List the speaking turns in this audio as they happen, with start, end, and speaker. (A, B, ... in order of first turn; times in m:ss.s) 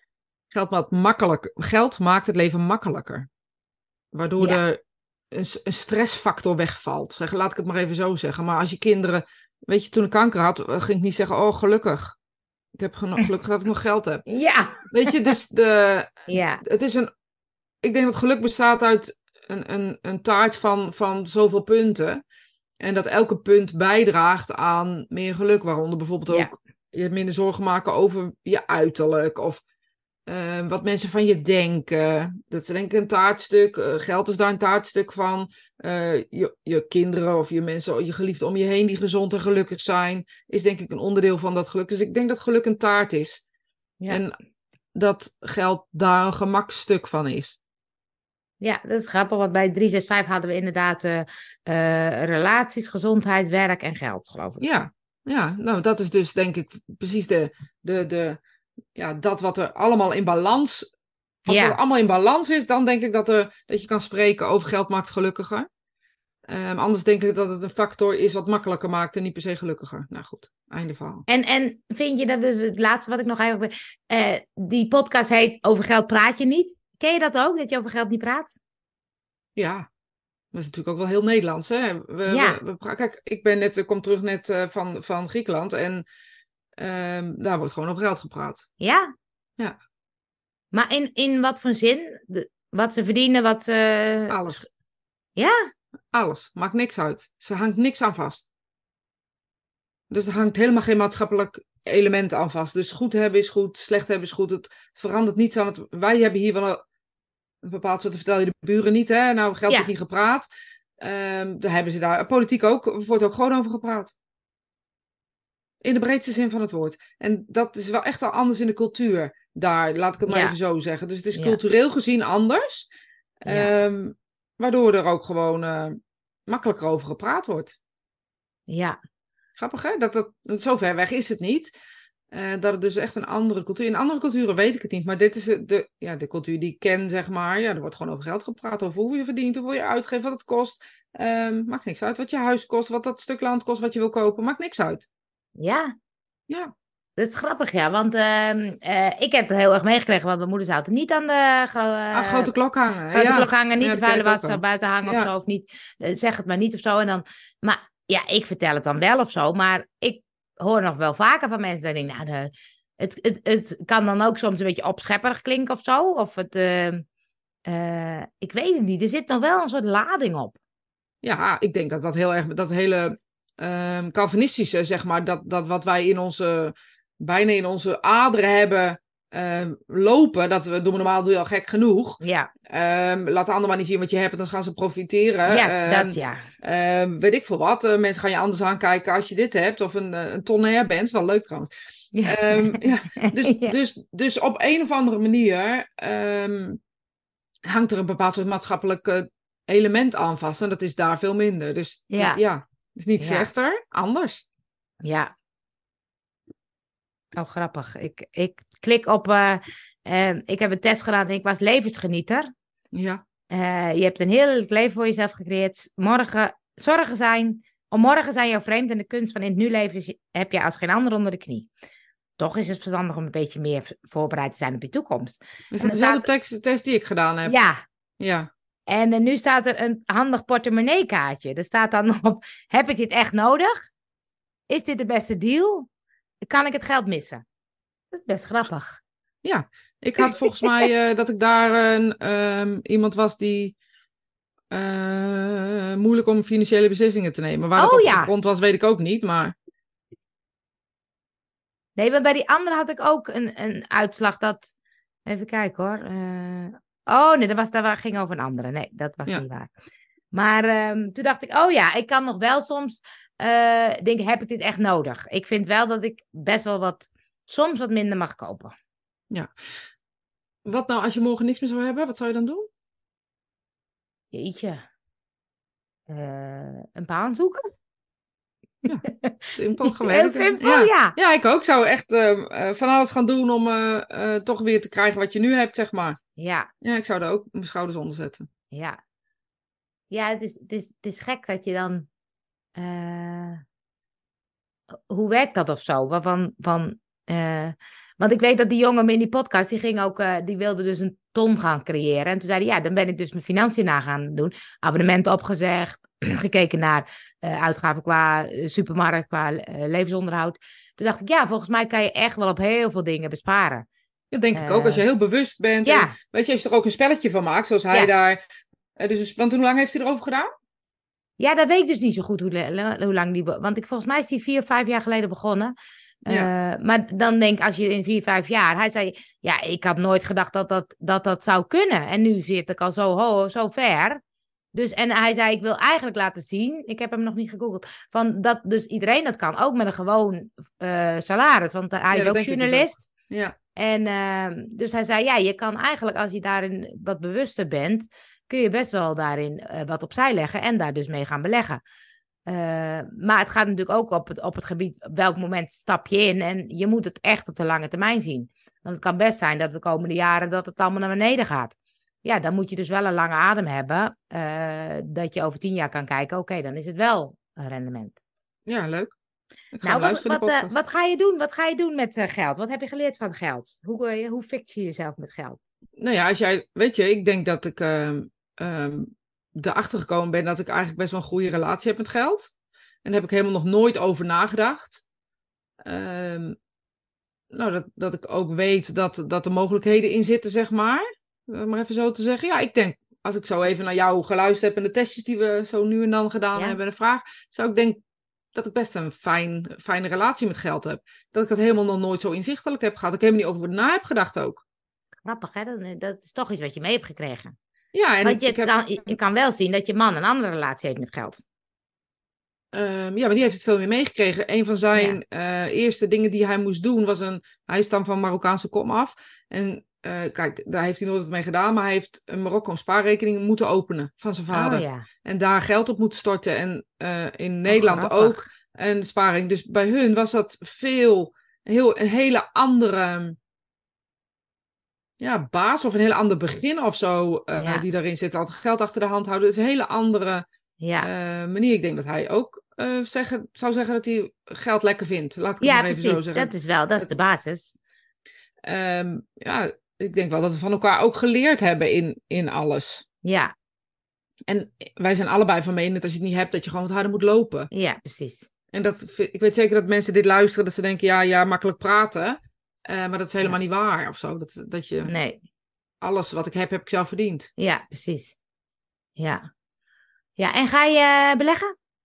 0:00.5-0:03.3 A
0:04.1-0:04.8 A
0:05.3-0:12.2 A
0:12.8-0:14.2 A
0:14.3-0:15.1 B
0:14.9-0:17.1 A
0:16.3-0:16.6 B
0:17.8-0:22.2 A
0:22.8-0:29.6 A
0:30.3-0:43.4 A
0:44.1-0:44.4 A
0:45.0-0:47.6 A
0:48.6-0:54.6 B
0:54.6-0:58.4 A
0:59.0-1:00.9 A
1:01.4-1:05.7 A
1:01.5-1:01.8 B
1:06.5-1:11.2 A
1:11.3-1:18.6 B
1:19.6-1:19.9 A
1:20.5-1:26.1 A
1:22.3-1:22.6 B
1:26.8-1:28.7 A
1:28.8-1:29.1 B
1:30.7-1:34.4 B
1:34.3-1:34.7 A
1:35.4-1:35.6 B
1:36.1-1:38.5 A
1:40.1-1:46.8 A
1:47.6-1:50.5 A
1:51.0-1:54.1 A
1:55.8-2:02.9 A
2:00.3-2:00.6 B
2:03.4-2:07.8 A
2:08.7-2:09.0 B
2:09.6-2:11.7 A
2:12.3-2:25.1 A
2:25.6-2:25.9 B
2:27.2-2:32.5 B
2:32.1-2:35.3 A
2:33.1-2:47.0 B
2:47.7-2:50.6 B
2:51.2-3:11.7 A
3:02.2-3:02.5 B
3:05.5-3:06.4 B
3:12.1-3:13.7 B
3:12.2-3:16.8 A
3:17.7-3:24.4 A
3:22.1-3:22.4 B
3:23.2-3:23.5 B
3:25.0-3:25.3 B
3:27.4-3:32.5 B
3:32.9-3:33.2 A
3:33.5-3:41.7 B
3:42.4-3:46.3 B
3:45.7-3:47.6 A
3:47.5-3:47.8 B
3:48.2-3:48.5 A
3:48.9-3:53.8 B
3:54.7-3:55.9 B
3:56.4-3:57.4 B
3:58.1-3:59.0 B
3:59.4-4:03.8 A
4:00.2-4:00.7 B
4:04.7-4:09.6 A
4:07.8-4:08.3 B
4:12.0-4:14.7 B
4:15.3-4:19.7 B
4:20.3-4:28.7 B
4:30.6-4:32.7 A
4:34.3-4:34.8 B
4:36.1-4:37.7 B
4:38.8-4:46.2 A
4:39.0-4:41.2 B
4:46.4-4:46.7 B
4:46.8-4:48.5 A
4:48.7-4:49.0 B
4:50.1-4:52.1 B
4:52.8-4:53.6 B
4:54.9-5:13.9 B
5:14.3-5:18.4 A
5:14.6-5:15.0 B
5:15.8-5:16.2 B
5:19.0-5:20.5 A
5:21.4-5:25.7 B
5:26.2-5:34.2 B
5:34.7-5:43.1 B
5:42.1-5:43.6 A
5:43.8-5:51.8 B
5:52.5-6:08.2 B
6:08.7-6:09.2 A
6:09.7-6:10.7 A
6:09.8-6:15.6 B
6:16.0-6:22.5 A
6:23.0-6:25.0 A
6:25.8-6:26.6 A
6:27.5-6:38.0 A
6:38.5-6:44.6 A
6:45.2-6:47.6 B
6:47.9-6:48.7 A
6:48.2-6:51.4 B
6:52.7-7:13.4 A
7:04.5-7:05.1 B
7:07.7-7:08.4 B
7:15.2-7:20.5 A
7:17.6-7:17.8 B
7:20.8-7:21.1 B
7:21.0-7:26.5 A
7:25.6-7:27.8 B
7:28.6-7:33.0 A
7:33.2-7:33.5 B
7:34.5-7:37.7 A
7:37.7-7:38.5 B
7:38.7-7:45.1 A
7:45.1-7:45.4 B
7:46.0-7:47.5 A
7:47.6-7:48.4 B
7:49.2-7:49.4 B
7:50.4-7:51.7 B